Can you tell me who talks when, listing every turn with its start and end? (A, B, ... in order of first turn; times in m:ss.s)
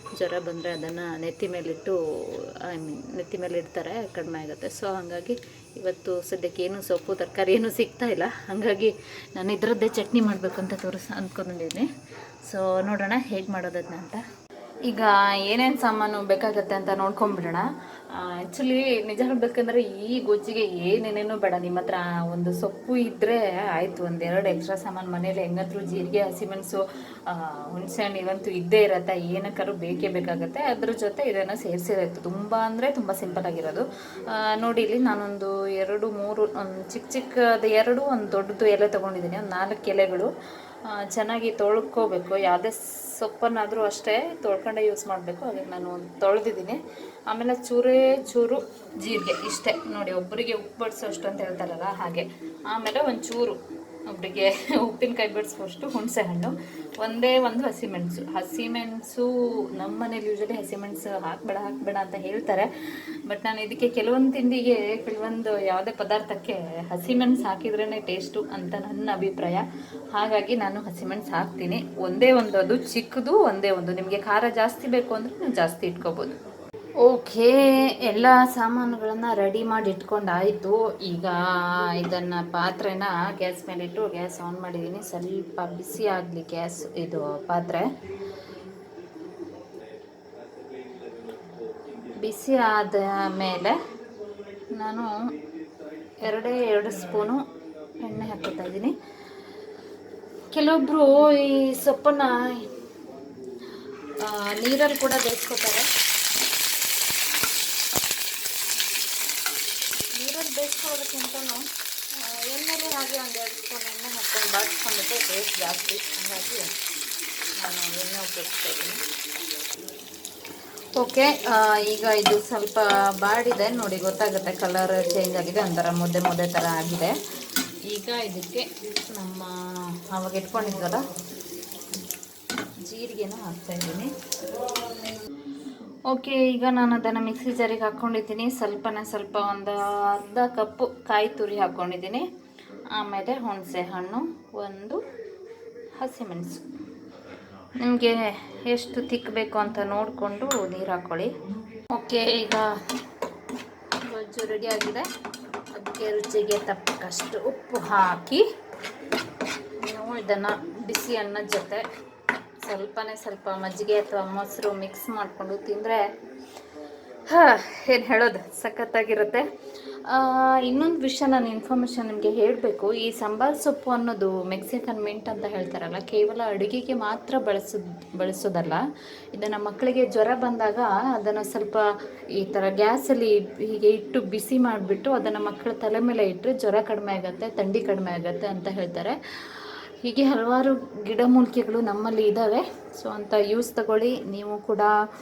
0:00.2-0:11.9 A
0:12.4-0:14.2 A
0:14.8-0:40.3 A
0:40.8-1:02.7 A
1:03.3-1:16.4 A
1:17.0-1:27.9 A
1:32.2-1:33.7 A
1:34.7-1:35.1 A
1:36.2-1:37.4 A
1:38.0-1:38.9 A
1:40.5-1:42.7 A
1:44.0-1:45.9 A
1:50.2-1:51.6 A
1:52.2-1:56.7 A
1:57.6-1:59.0 A
2:01.0-2:07.2 A
2:07.9-2:11.0 A
2:12.8-2:15.1 A
2:16.1-2:22.3 A
2:22.9-2:25.0 A
2:26.0-2:26.6 A
2:27.8-2:32.8 A
2:34.0-2:35.1 A
2:35.7-2:38.4 A
2:39.8-2:41.8 A
2:42.6-2:46.1 A
2:47.3-3:01.8 A
3:02.4-3:14.9 A